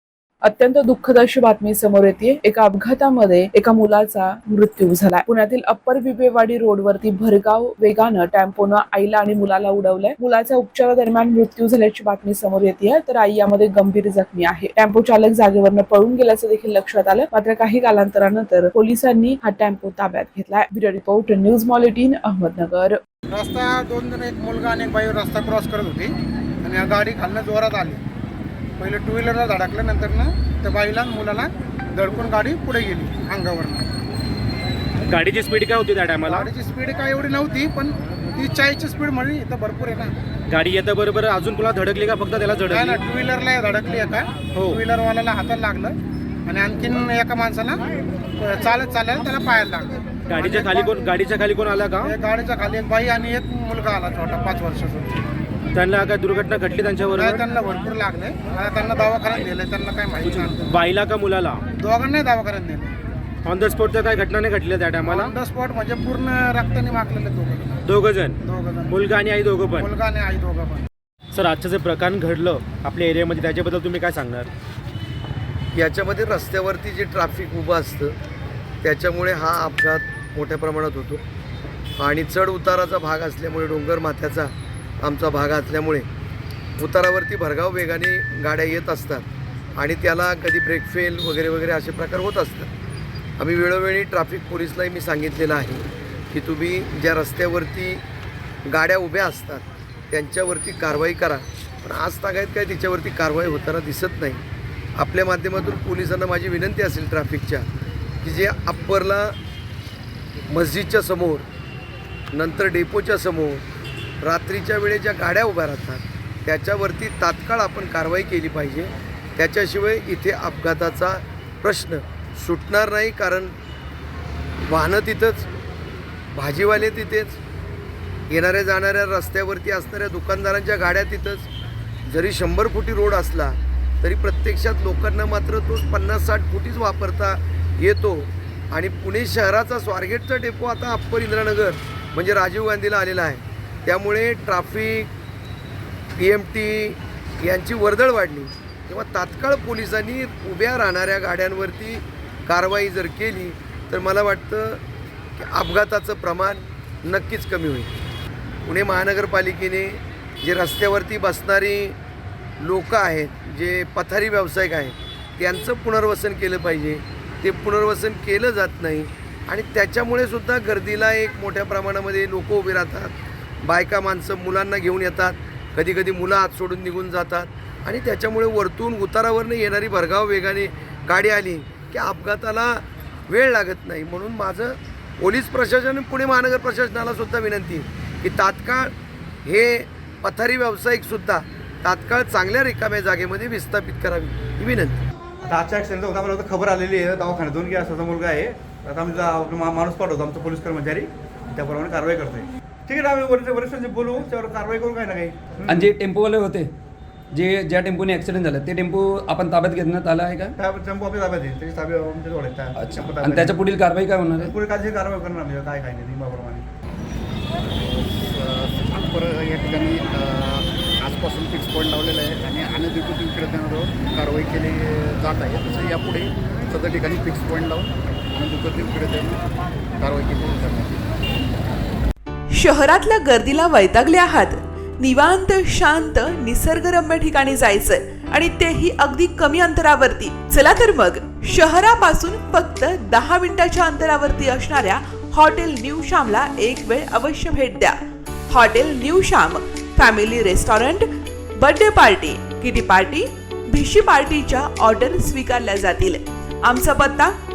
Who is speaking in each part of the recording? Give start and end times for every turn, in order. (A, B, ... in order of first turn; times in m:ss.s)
0:00.4-0:23.0 A
0:23.3-0:28.0 B
0:28.8-0:33.9 B
0:35.1-0:36.5 C
0:36.3-0:40.1 B
0:40.5-0:43.1 C
0:42.7-0:45.9 B
0:44.5-0:44.8 C
0:46.5-0:47.8 B
0:48.4-0:50.9 B
0:50.3-0:52.2 C
0:52.0-0:55.2 B
0:55.7-0:57.5 C
0:57.2-1:00.7 B
1:00.2-1:01.6 C
1:01.8-1:02.9 B
1:03.4-1:05.3 C
1:05.0-1:07.7 B
1:07.9-1:09.9 C
1:08.4-1:08.9 B
1:09.8-1:10.8 B
1:11.3-1:14.5 C
1:15.7-1:18.2 D
1:18.8-1:21.2 D
1:22.0-1:26.1 D
1:26.8-1:32.7 D
1:33.4-1:38.0 D
1:38.6-1:44.4 D
1:45.0-1:47.7 D
1:48.2-1:49.3 D
1:50.5-1:51.5 D
1:52.3-1:53.6 D
1:54.2-2:03.5 D
2:04.6-2:05.5 D
2:06.3-2:07.4 D
2:08.3-2:11.5 D
2:12.1-2:25.1 D
2:26.2-2:34.8 D
2:35.4-2:37.9 D
2:38.6-2:42.0 D
2:42.6-2:53.1 D
2:53.6-3:08.9 D
3:09.4-3:15.0 D
3:15.4-3:25.9 E
3:25.7-3:26.7 F
3:27.3-3:30.5 F
3:30.6-3:33.6 E
3:32.8-3:34.5 F
3:34.4-3:36.7 E
3:37.6-3:49.4 G
3:50.0-3:51.2 G
3:52.5-4:08.0 H
4:08.5-4:11.0 H
4:11.6-4:17.3 H